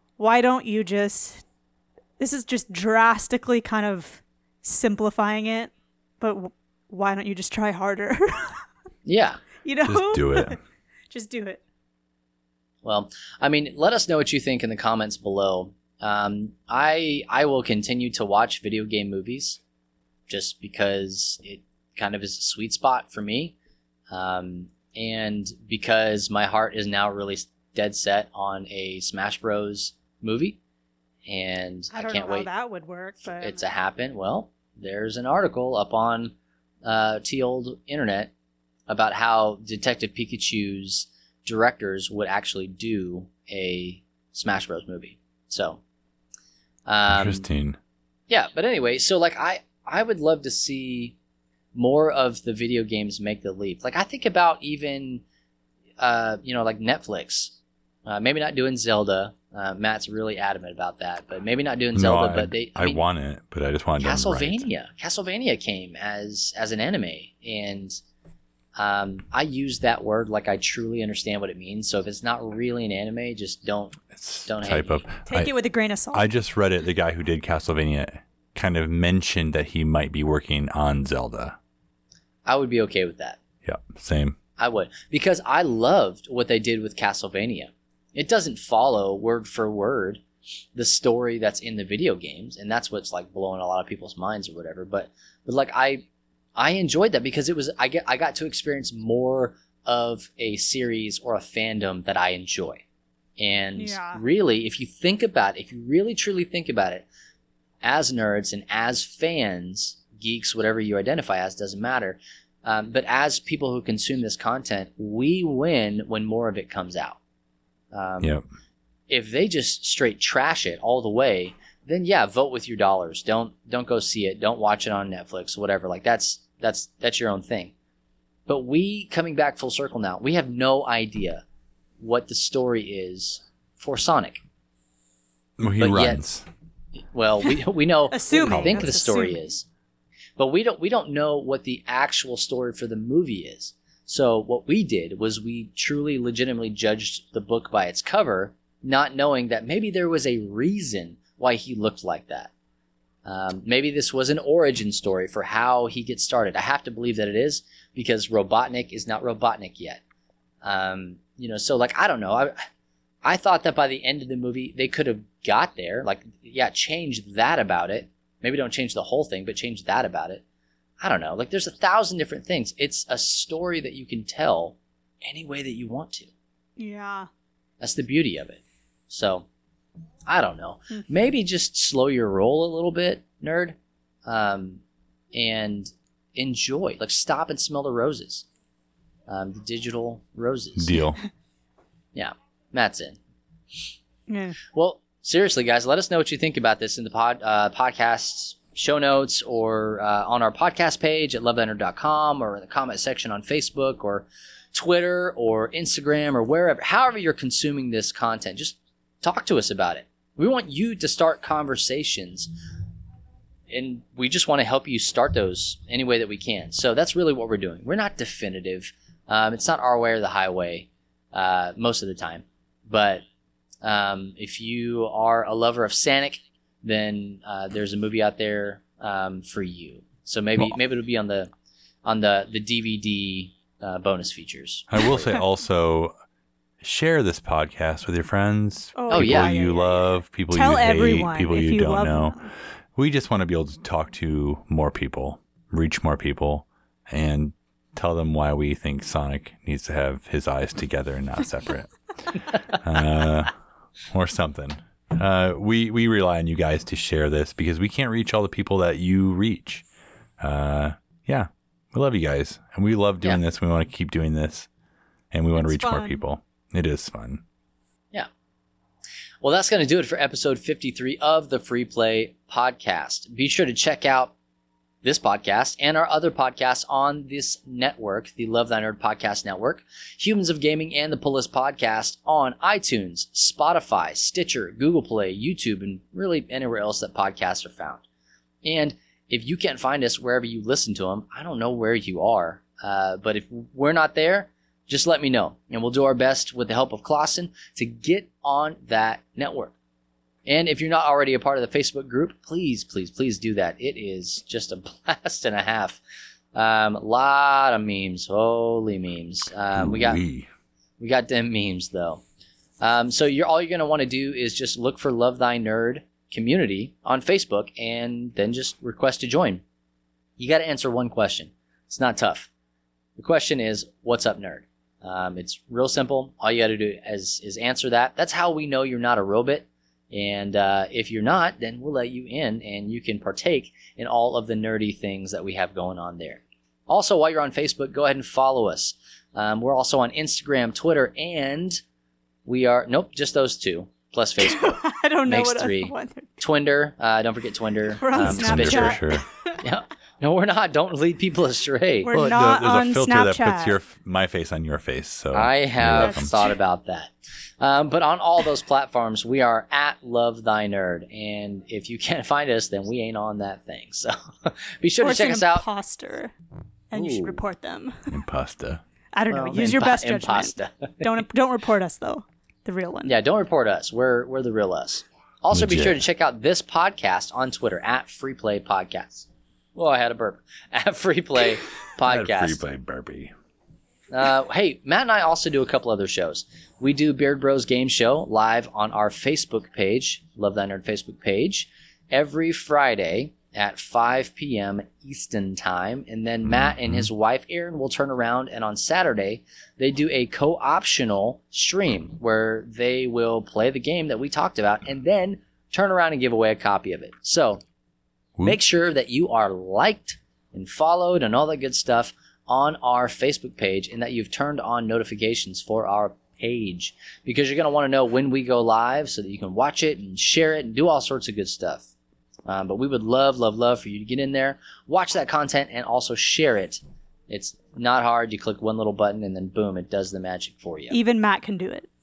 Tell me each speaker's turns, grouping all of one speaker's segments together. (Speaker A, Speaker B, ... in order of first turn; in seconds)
Speaker A: 0.2-1.4, 2.2-8.6, 9.6-10.6, 11.1-11.6, 31.9-33.7, 75.3-76.3, 103.8-104.2, 138.1-139.4, 176.8-177.3, 194.3-194.6, 239.0-242.4, 265.5-266.2, 344.4-346.4, 348.0-349.6, 352.0-353.8, 355.9-356.6, 365.0-366.3, 366.9-368.1, 369.1-373.1, 430.9-431.9
Speaker B: 9.1-9.4, 12.8-19.6, 20.3-23.6, 24.1-30.6, 31.3-32.5, 33.3-38.3, 38.9-45.8, 46.9-47.5, 48.3-51.1, 51.8-55.2, 56.0-57.5, 58.1-63.0, 64.0-68.0, 68.8-75.1, 82.5-83.4, 84.6-90.2, 90.8-96.0, 96.6-102.8, 103.4-107.1, 107.8-117.2, 117.9-118.4, 119.1-127.7, 128.5-131.4, 132.0-134.4, 135.8-136.2, 137.1-139.7, 140.4-152.5, 153.2-160.0, 160.6-162.6, 163.2-170.4, 171.0-176.3, 177.8-179.5, 180.3-184.8, 185.3-188.4, 189.3-191.0, 192.2-193.2, 194.7-212.5, 213.7-223.2, 223.8-231.5, 232.1-235.4, 239.1-239.7, 269.4-274.3, 275.0-288.0, 288.6-299.7, 300.5-306.0, 306.6-310.2, 311.0-312.2, 312.8-319.6, 320.4-322.5, 323.2-341.8, 342.4-349.0, 349.6-352.1, 355.3-365.7, 366.9-367.4, 369.3-371.1, 373.1-382.6, 384.1-407.6, 408.4-421.9, 422.5-431.0
Speaker C: 9.8-10.6, 47.1-47.8, 62.0-64.7, 74.1-75.5, 76.1-81.6, 83.7-84.4, 135.6-136.5, 138.5-138.8, 190.8-191.2, 234.9-236.1, 236.8-242.4, 242.9-253.5, 254.1-259.9, 260.4-264.7, 265.3-267.4, 309.7-310.5, 348.1-349.2, 352.1-356.3, 368.1-368.8, 375.5-376.0, 382.0-383.3, 396.5-397.1